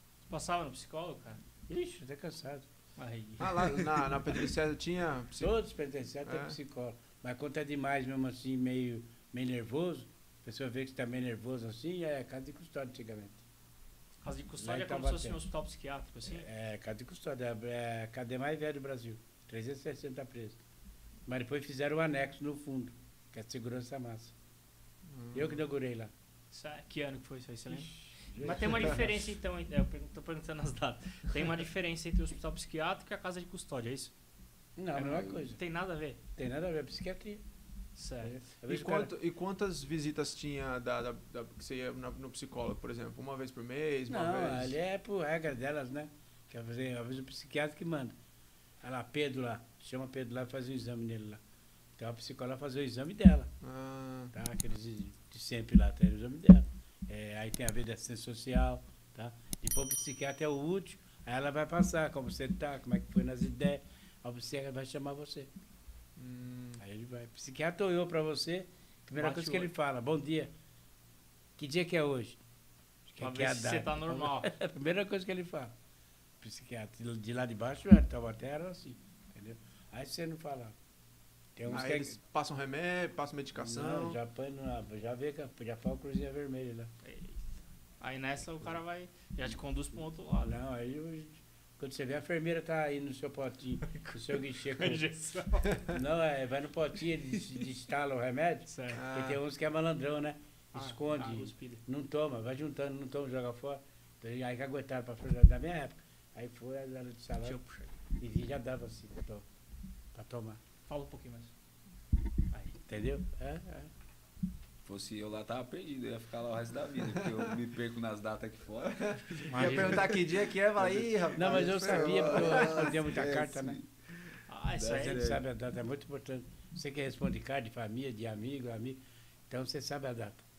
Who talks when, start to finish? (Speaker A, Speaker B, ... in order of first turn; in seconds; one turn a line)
Speaker A: 0.3-1.4
Speaker B: 1.7-2.6
Speaker A: 3.0-3.7
Speaker C: 3.4-5.6
Speaker B: 5.4-13.4
Speaker C: 6.2-6.6
Speaker A: 14.2-16.5
Speaker B: 14.6-15.4
Speaker B: 16.3-20.6
Speaker B: 21.3-24.3
Speaker C: 25.1-25.6
Speaker B: 25.3-26.1
Speaker A: 26.5-34.1
Speaker B: 27.7-29.2
Speaker B: 34.8-35.6
Speaker A: 35.0-36.2
Speaker B: 36.4-37.4
Speaker A: 38.0-38.4
Speaker B: 38.2-39.1
Speaker C: 38.7-44.8
Speaker B: 44.1-48.1
Speaker B: 48.8-51.4
Speaker B: 52.0-53.5
Speaker C: 53.6-54.3
Speaker B: 54.3-65.5
Speaker C: 66.2-66.8
Speaker B: 66.8-70.5
Speaker A: 69.2-69.7
Speaker B: 71.6-72.4
Speaker B: 73.1-75.7
Speaker A: 73.2-74.5
Speaker B: 76.4-80.8
Speaker B: 81.6-82.2
Speaker C: 81.6-84.2
Speaker B: 83.6-86.9
Speaker A: 87.0-90.6
Speaker B: 90.4-95.0
Speaker A: 94.0-95.9
Speaker B: 95.9-107.6
Speaker A: 98.7-99.0
Speaker C: 98.9-99.4
Speaker A: 100.7-101.8
Speaker A: 107.4-107.9
Speaker B: 108.2-109.5
Speaker B: 110.1-110.6
Speaker A: 110.9-111.5
Speaker B: 112.8-113.9
Speaker D: 114.8-123.9
Speaker C: 119.1-122.9
Speaker A: 119.5-120.1
Speaker B: 121.3-123.8
Speaker A: 124.5-125.2
Speaker D: 124.7-125.4
Speaker B: 124.9-130.4